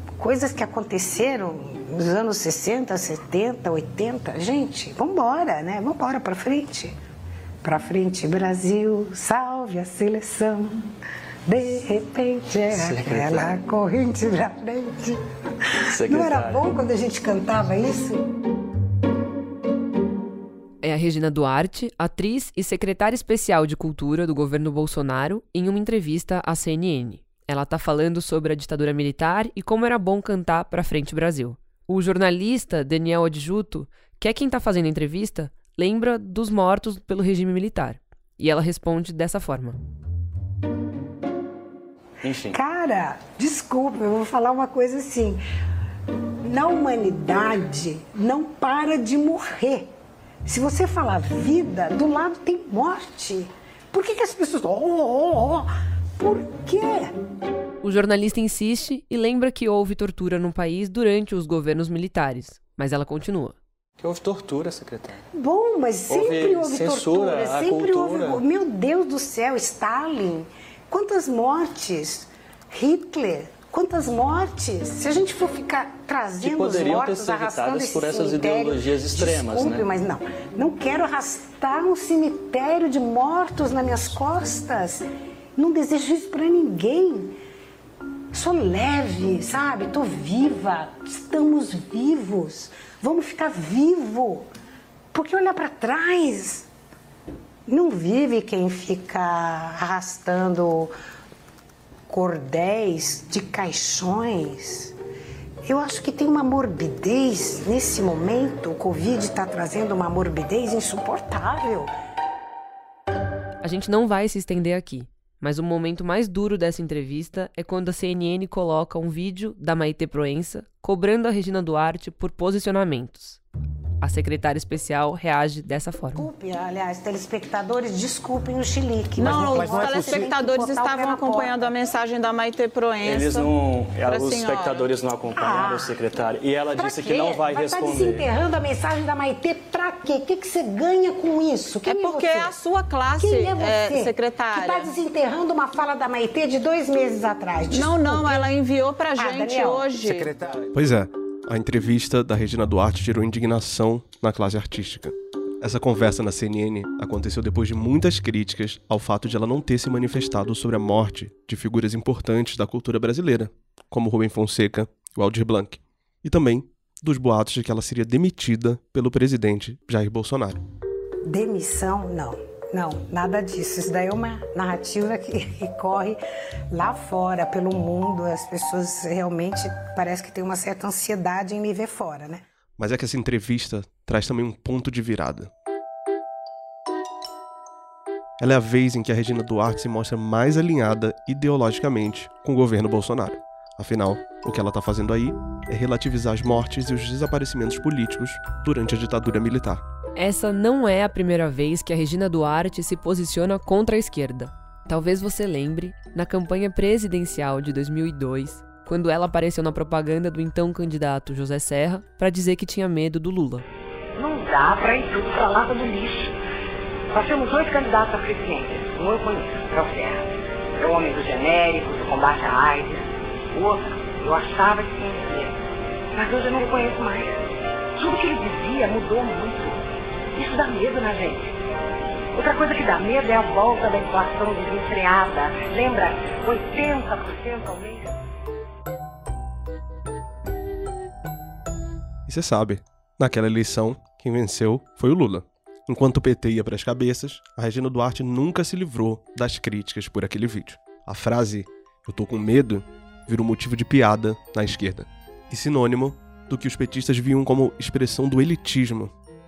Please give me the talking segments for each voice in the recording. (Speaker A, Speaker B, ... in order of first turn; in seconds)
Speaker A: 0.2-7.0, 7.6-10.8, 11.5-15.2, 15.7-18.2, 42.5-45.4, 46.4-49.9, 50.5-57.1, 65.3-85.0, 85.6-87.4, 88.3-94.5, 95.1-96.7, 97.7-100.9, 102.1-105.0, 105.6-111.9, 126.2-131.8, 135.3-136.0, 136.7-142.6, 143.1-148.6, 149.2-149.9, 171.2-176.2, 176.7-182.4
Speaker B: 12.7-13.6, 15.9-16.6, 42.2-42.6, 64.0-65.2, 66.1-68.4, 76.4-79.9, 133.0-138.3
Speaker C: 20.8-39.8, 57.8-63.6, 113.6-123.4, 124.0-126.3, 200.2-213.7
Speaker D: 129.2-134.9, 141.8-144.9, 147.7-150.3
Speaker E: 150.7-170.6, 182.8-185.5, 188.4-199.8, 242.3-259.1
Speaker F: 214.2-216.3, 217.1-220.3, 220.8-225.6, 226.2-227.4, 228.0-231.6, 232.3-238.2